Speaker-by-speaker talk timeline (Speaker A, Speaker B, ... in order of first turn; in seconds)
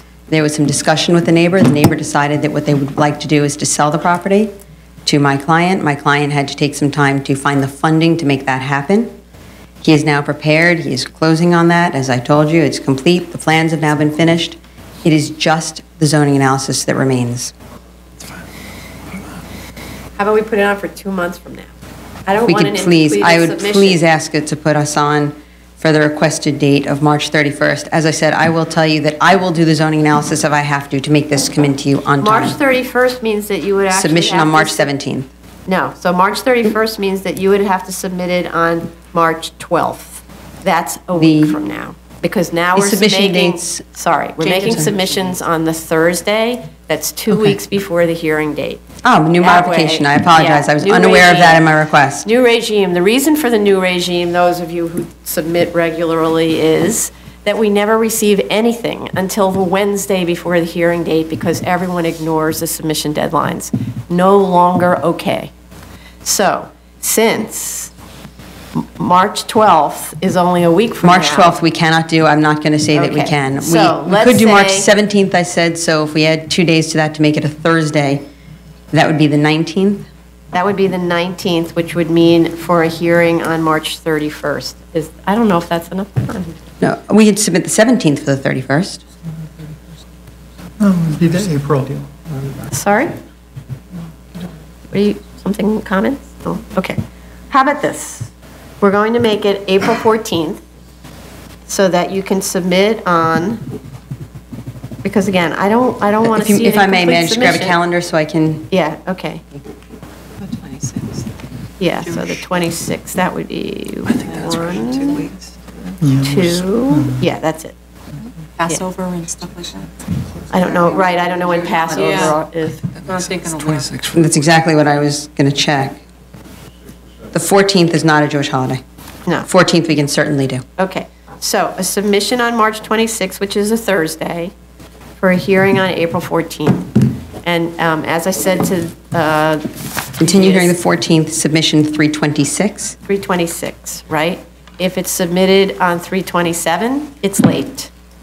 Speaker A: 0.3-4.5, 5.0-9.1, 9.8-17.5, 22.5-32.6, 33.9-35.3, 41.2-41.5, 42.8-43.8, 44.4-44.9, 47.3-47.6, 49.0-52.2, 71.0-78.2, 78.9-80.1, 86.8-89.0, 106.2-108.7, 124.1-126.0, 127.3-128.8, 129.5-130.6, 140.2-142.9
Speaker B: 20.2-21.7, 22.2-24.0, 32.2-34.9, 35.7-48.8, 49.4-51.7, 52.2-65.5, 66.2-67.9, 68.8-71.5, 72.9-74.9, 80.5-86.5, 92.7-93.2, 94.9-98.3, 98.8-100.6, 101.7-103.7, 105.0-107.8, 108.7-109.5, 111.8-115.3, 116.1-117.8, 120.5-122.9, 130.8-134.5, 135.2-140.8, 143.1-147.9
Speaker C: 90.8-92.6, 116.0-117.2, 123.7-124.1
Speaker D: 110.4-111.3, 112.0-112.3, 114.1-115.9, 118.6-119.9, 120.5-124.1